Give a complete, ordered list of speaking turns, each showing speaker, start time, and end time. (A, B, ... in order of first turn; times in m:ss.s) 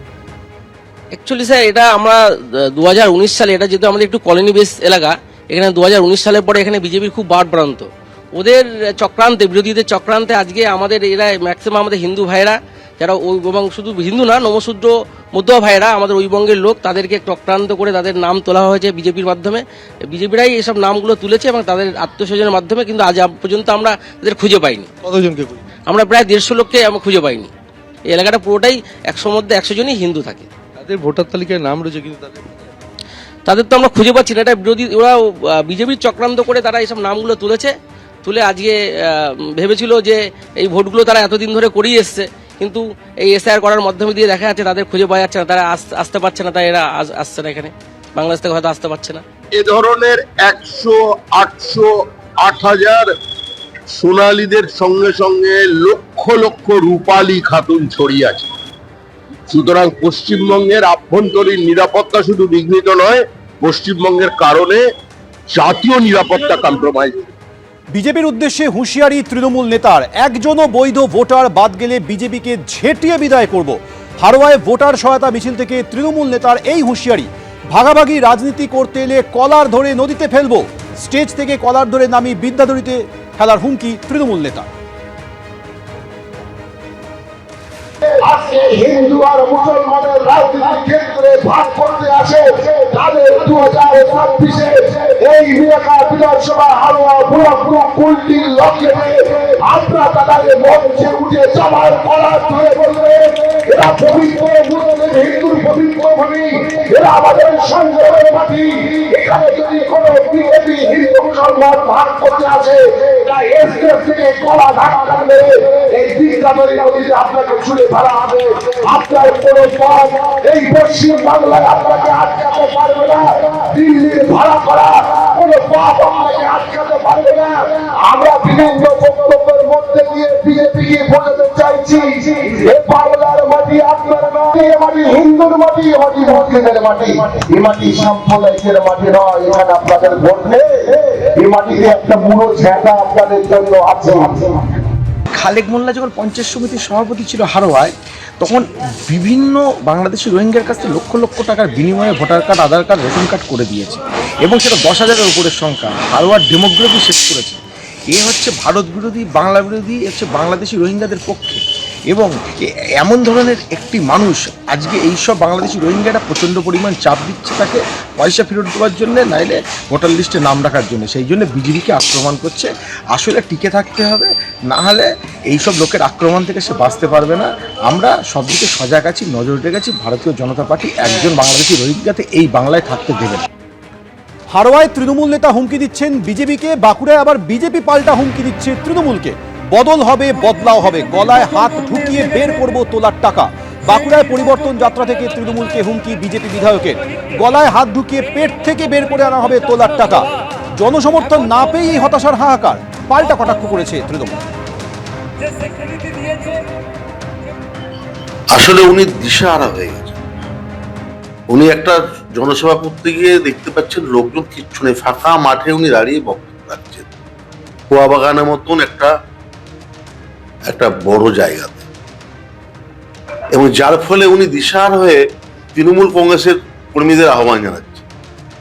0:01.1-0:24.9 A
0:25.0-0:25.7 B
0:25.9-0:27.5 A
0:28.1-0:30.5 A
0:30.8-0:32.7 B
0:33.5-0:49.2 A
0:49.6-0:53.1 C
0:53.9-0:58.5 C
0:59.5-1:04.8 C
1:05.5-1:07.2 C
1:07.9-1:24.7 D
1:28.0-2:24.9 E
2:25.3-2:37.6 F
2:38.1-2:42.3 F
2:43.0-3:03.5 F
3:04.5-3:24.4 D
3:28.5-3:30.2 G
3:31.5-3:37.0 G
3:37.9-3:39.1 G
3:40.7-3:41.8 G
3:43.5-3:45.2 G
3:45.7-3:48.0 G